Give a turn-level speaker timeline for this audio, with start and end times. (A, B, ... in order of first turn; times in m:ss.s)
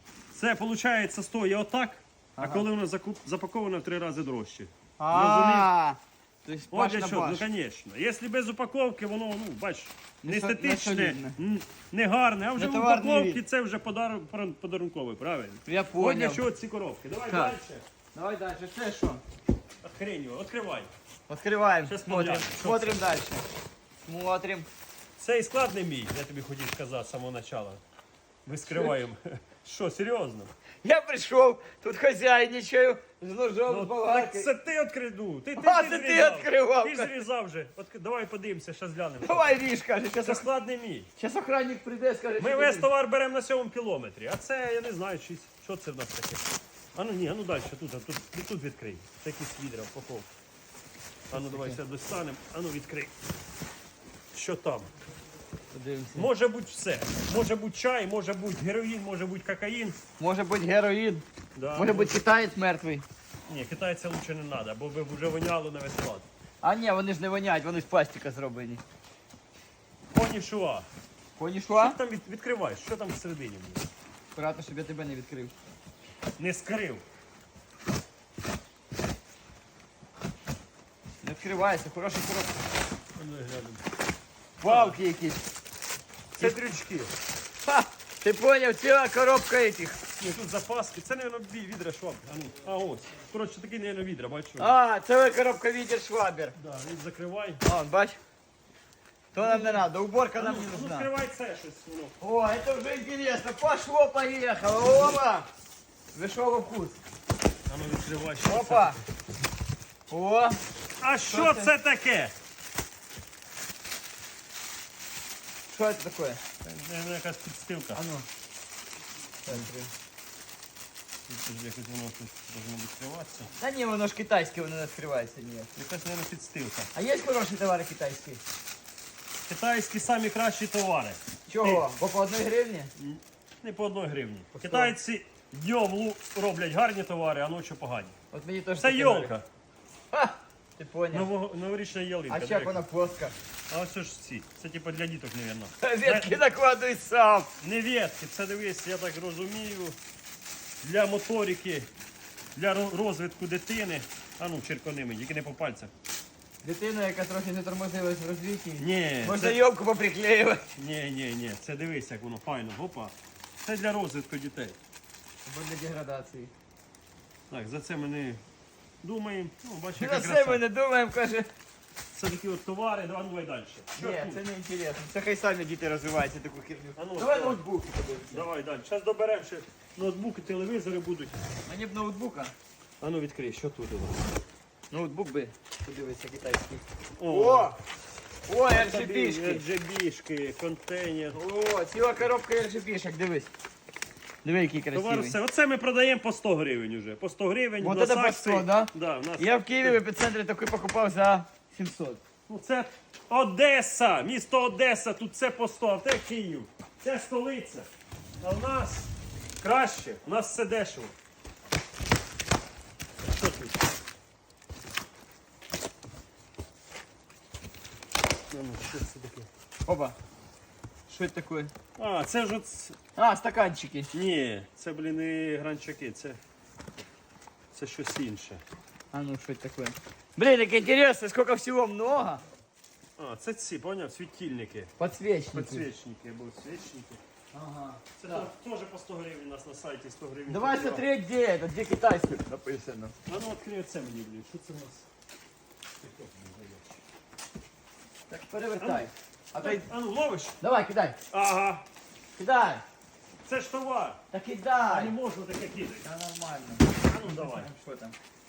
0:00.3-0:05.7 A
0:02.4-0:02.7 B
0:05.0-0:07.5 B
0:06.7-0:17.8 A
0:10.2-0:11.4 B
0:12.6-0:13.4 B
0:15.7-0:16.4 B
0:17.3-0:17.6 B
0:18.1-0:19.2 B
0:19.8-0:20.9 A
0:21.3-0:23.4 B
0:21.9-0:23.0 A
0:24.1-0:24.7 B
0:25.2-0:27.8 A
0:28.5-0:30.5 A
0:30.8-0:34.5 B
0:33.7-0:39.6 A
0:35.6-0:37.2 B
0:39.2-0:40.5 B
0:40.2-0:41.1 A
0:41.2-0:42.9 B
0:42.4-0:50.3 A
0:51.3-0:53.1 A
0:51.3-0:51.8 B
0:54.3-0:54.9 A
0:55.7-0:56.3 B
0:56.2-1:00.0 A
1:00.2-1:03.0 B
1:01.6-1:02.2 A
1:03.5-1:06.3 A
1:06.6-1:08.8 B
1:10.1-1:10.9 A
1:11.4-1:12.0 B
1:11.7-1:13.9 A
1:14.4-1:15.5 B
1:16.4-1:17.0 A
1:21.2-1:22.6 B
1:23.2-1:23.8 A
1:24.6-1:25.4 B
1:24.6-1:25.0 A
1:26.4-1:27.1 A
1:27.6-1:30.0 B
1:30.2-1:34.8 A
1:34.6-1:36.6 B
1:36.6-1:37.6 A
1:37.6-1:38.2 B
1:39.3-1:41.1 B
1:39.4-1:39.8 A
1:40.4-1:42.2 A
1:42.2-1:45.5 B
1:46.1-1:47.0 B
1:47.7-1:49.0 A
1:48.4-1:49.0 B
1:50.1-1:50.6 B
1:51.0-1:52.3 A
1:51.3-1:51.7 B
1:55.7-1:56.4 B
1:56.6-1:58.0 A
1:58.0-1:58.3 B
1:59.4-1:59.9 B
2:01.3-2:03.5 A
2:03.6-2:05.7 B
2:05.8-2:06.9 A
2:07.0-2:08.4 B
2:09.5-2:11.9 A
2:11.5-2:12.9 B
2:13.0-2:18.1 A
2:14.6-2:14.9 B
2:18.3-2:19.3 B
2:18.8-2:19.4 A
2:20.1-2:21.3 B
2:21.1-2:22.8 A
2:22.3-2:23.4 B
2:23.7-2:26.4 A
2:25.8-2:27.5 B
2:27.6-2:30.0 A
2:30.8-2:31.9 A
2:32.6-2:35.9 A
2:36.6-2:40.7 B
2:38.8-2:39.6 A
2:40.8-2:44.8 A
2:45.5-2:46.5 B
2:47.5-2:48.4 A
2:49.0-2:50.6 A
2:50.0-2:51.5 B
2:52.1-2:54.4 A
2:54.0-2:58.5 B
2:57.0-2:57.6 A
2:58.3-3:01.4 A
3:01.7-3:02.5 B
3:03.0-3:04.2 A
3:04.9-3:07.8 B
3:07.2-3:07.8 A
3:08.5-3:09.6 B
3:08.7-3:11.4 A
3:11.3-3:13.5 B
3:14.4-3:15.4 B
3:14.9-3:20.0 A
3:17.8-3:22.2 B
3:22.5-3:27.9 A
3:28.4-3:31.1 A
3:33.2-3:33.8 A
3:38.5-3:39.5 A
3:39.8-3:40.2 B
3:41.1-3:41.7 B
3:42.0-3:43.0 A
3:43.2-3:44.1 B
3:44.1-3:46.4 A
3:47.7-3:48.6 A
3:49.1-3:52.4 B
3:53.2-3:54.9 A
3:55.0-3:55.9 B
3:55.5-3:57.2 A
3:57.5-3:58.5 B
3:58.2-4:01.0 A
4:00.5-4:03.1 B
4:03.3-4:05.1 A
4:06.0-4:07.0 A
4:08.3-4:09.9 B
4:08.8-4:10.6 A
4:10.6-4:11.2 B
4:11.3-4:11.8 A
4:12.4-4:12.8 B
4:13.4-4:14.2 A
4:14.3-4:15.1 B
4:14.9-4:16.1 A
4:16.0-4:18.2 B
4:17.0-4:17.7 A